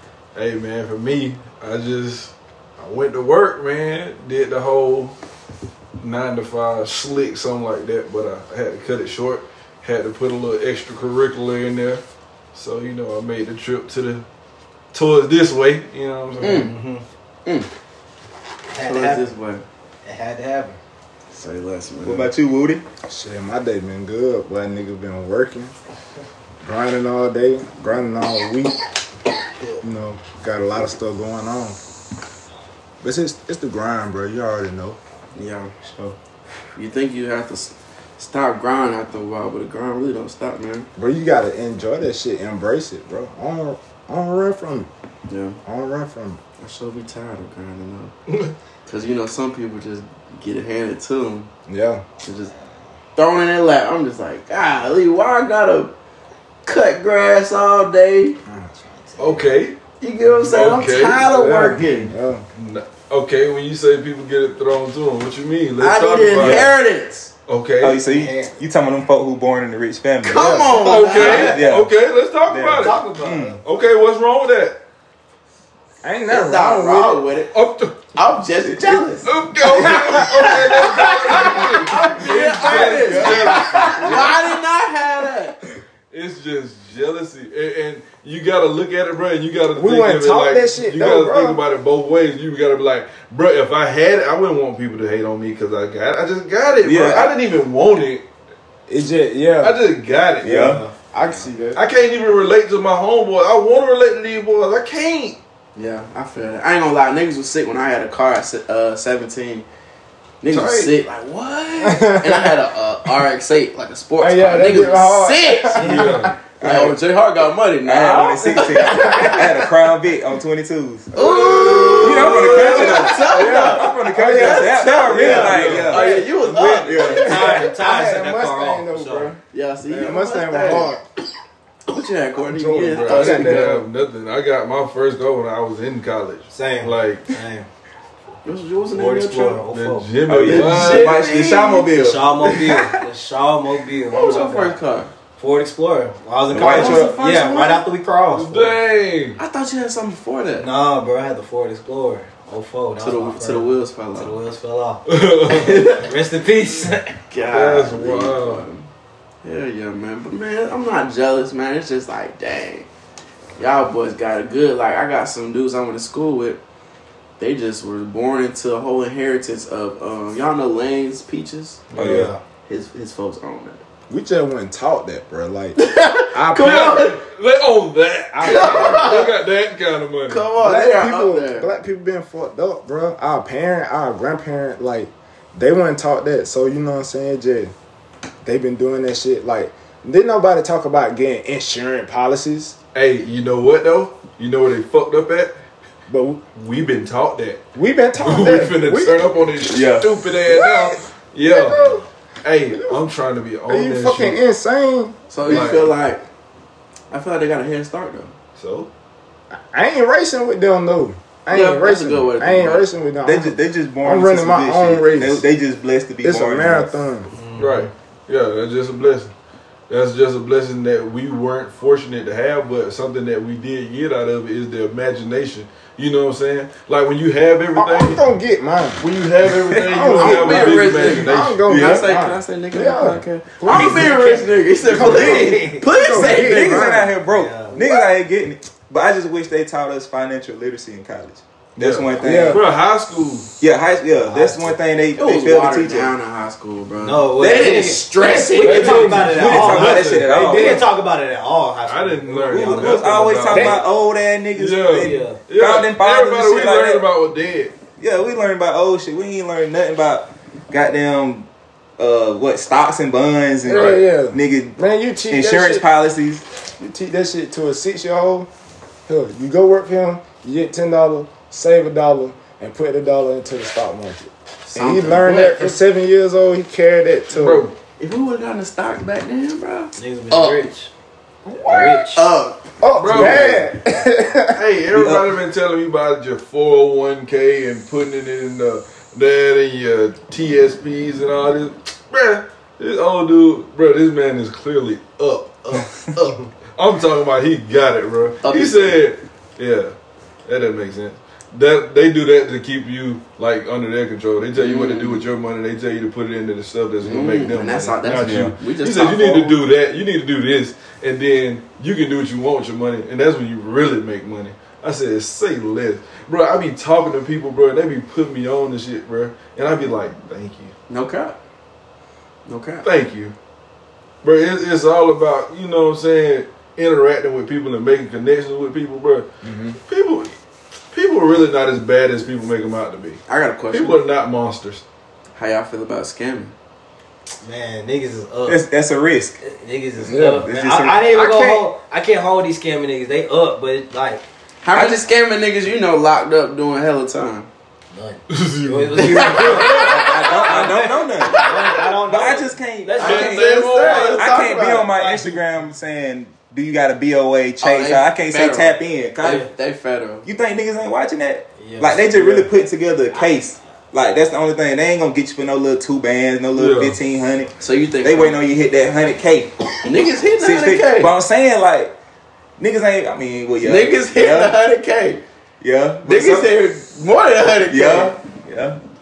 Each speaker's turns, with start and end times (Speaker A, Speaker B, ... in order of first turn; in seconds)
Speaker A: 0.3-5.2, 6.0-12.0, 12.5-14.2, 14.9-16.7, 59.2-59.8, 60.4-61.3, 62.5-66.7, 67.5-68.0, 70.7-73.0, 73.6-74.8, 77.5-78.1, 79.2-84.3, 86.1-98.2, 99.6-100.8, 101.7-105.4, 115.8-116.3, 121.2-123.2, 125.3-126.0, 132.9-137.3, 139.7-141.2, 148.3-149.4, 155.1-156.0, 157.5-158.7, 171.9-172.3, 176.5-180.4, 192.9-195.6, 196.5-197.6, 198.2-201.8, 202.4-204.4, 205.4-205.9, 208.6-208.9, 217.6-219.3, 219.9-228.2, 229.0-231.7, 241.8-243.5, 248.7-250.2, 251.8-253.8, 254.5-257.7, 263.7-264.0, 277.3-277.7, 282.9-283.7, 284.5-299.9, 300.4-320.7, 322.8-323.3, 324.2-329.3, 329.9-330.4, 330.9-334.8, 348.3-350.2, 353.0-354.2, 366.5-367.0
Speaker B: 16.4-17.0, 18.7-19.3, 20.0-20.8, 35.9-36.1, 58.8-59.5, 67.9-68.6, 71.0-71.6, 72.7-73.6, 79.7-81.8, 100.4-101.5, 115.8-116.2, 126.0-129.3, 136.5-137.7, 138.9-140.1, 141.9-144.8, 145.4-148.8, 150.6-157.1, 171.9-172.4, 201.4-202.0, 217.3-217.9, 233.7-235.8, 237.2-237.8, 244.2-244.8, 247.0-253.3, 254.9-255.4, 280.0-280.9, 281.6-282.2, 337.4-338.6, 339.4-344.2, 347.9-355.6, 359.2-359.5, 361.6-362.5
Speaker C: 16.4-16.7, 18.8-19.6, 21.3-22.3, 35.3-35.7, 36.7-40.9, 45.3-45.6, 46.6-48.1, 48.9-51.5, 52.2-52.5, 53.1-55.9, 56.6-58.4, 60.0-62.1, 65.8-67.3, 70.2-71.6, 76.3-77.5, 78.1-85.6, 105.8-109.7, 110.4-119.7, 121.1-127.6, 129.5-130.9, 131.9-133.8, 138.4-139.6, 140.4-142.6, 144.1-145.1, 146.5-147.8, 149.4-150.7, 153.0-154.3, 155.5-156.1, 157.3-158.9, 159.4-162.9, 163.6-166.6, 167.4-171.9, 172.7-173.8, 175.8-177.2, 178.4-179.3, 180.3-181.7, 205.3-206.2, 207.1-208.3, 211.5-212.9, 230.1-236.9, 245.2-249.2, 274.7-275.8, 278.0-280.7, 281.7-283.4, 298.4-299.0, 304.5-305.2, 307.0-309.6, 320.9-321.4, 322.4-322.9, 333.3-334.0, 335.4-336.5, 344.6-347.5, 349.3-350.5, 351.2-351.8, 353.0-354.9, 357.6-360.3, 367.6-368.4, 369.8-371.1, 373.6-375.2, 376.0-378.1
Speaker D: 22.0-22.8, 66.4-66.6, 67.8-70.6, 71.2-71.9, 72.5-73.6, 78.7-79.0, 82.6-84.0, 96.8-97.3, 100.4-100.8, 116.6-117.0, 117.8-121.1, 122.0-127.7, 140.2-142.6, 146.5-147.1, 171.9-172.3, 199.7-200.2, 213.2-216.9, 229.6-230.3, 231.7-232.2, 235.0-235.4, 236.1-242.7, 243.6-246.1, 247.4-248.0, 249.3-250.8, 252.5-257.1, 258.0-266.4, 284.9-285.2, 338.4-339.4, 340.2-341.7, 344.7-345.0, 349.7-359.5, 360.2-369.8, 370.4-371.9, 372.6-374.5, 375.6-376.5, 377.7-378.8
Speaker E: 23.1-25.7, 26.6-28.8, 29.8-31.8, 33.0-35.0, 41.0-44.9, 45.6-46.4, 51.7-52.0, 58.5-58.7, 61.2-62.4, 70.3-70.7, 76.0-77.3, 83.1-84.3, 89.7-91.6, 98.9-99.8, 100.6-101.8, 110.5-110.9, 111.8-112.6, 114.2-116.3, 121.5-126.3, 127.1-131.0, 132.5-133.8, 146.6-147.1, 174.1-177.1, 178.3-179.1, 180.6-187.7, 188.4-192.8, 196.1-196.4, 197.7-199.2, 200.5-202.0, 202.7-203.0, 203.7-205.1, 209.5-215.4, 216.2-217.3, 227.7-229.0, 229.7-237.1, 237.8-238.0, 242.2-242.7, 248.6-250.8, 253.5-253.8, 263.6-265.9, 266.8-268.5, 269.1-277.7, 282.8-284.6, 329.4-329.8, 340.0-340.4